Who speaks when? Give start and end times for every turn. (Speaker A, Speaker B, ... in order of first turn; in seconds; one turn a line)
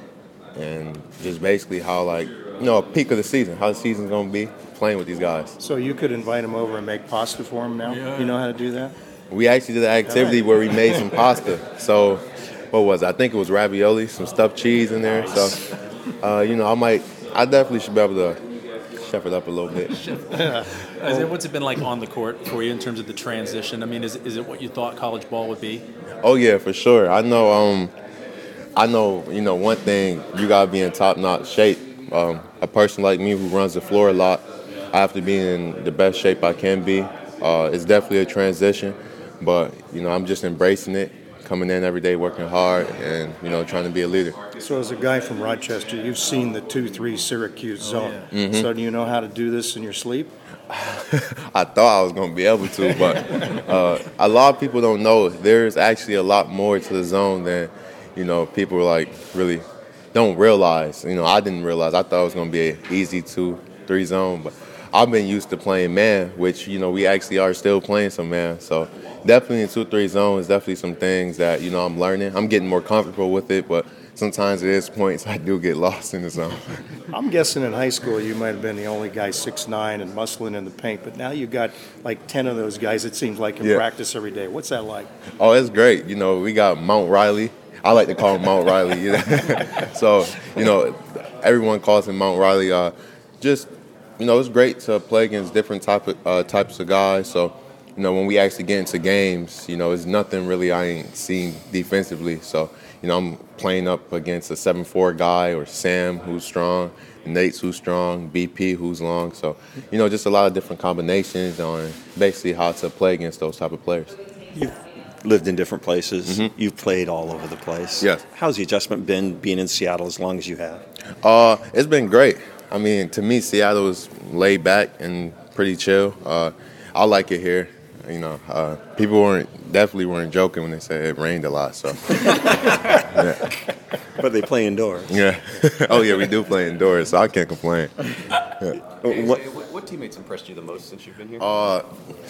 Speaker A: 0.5-5.5
Speaker B: 5.6-8.9
Speaker A: 9.3-15.6
Speaker B: 10.1-10.4
Speaker A: 16.2-18.4
Speaker A: 18.9-19.9
Speaker B: 20.3-21.2
Speaker C: 21.1-25.9
Speaker A: 26.2-27.9
Speaker A: 28.8-44.4
Speaker B: 44.6-50.3
Speaker A: 48.3-48.7
Speaker A: 50.7-76.8
Speaker B: 77.1-85.1
Speaker A: 85.4-114.1
Speaker D: 114.5-120.8
Speaker A: 116.2-116.5
Speaker A: 121.2-132.3
Speaker A: 132.9-133.5
Speaker D: 134.2-135.1
Speaker A: 135.1-138.8
Speaker E: 139.0-141.5
Speaker D: 139.0-139.4
Speaker A: 141.4-141.9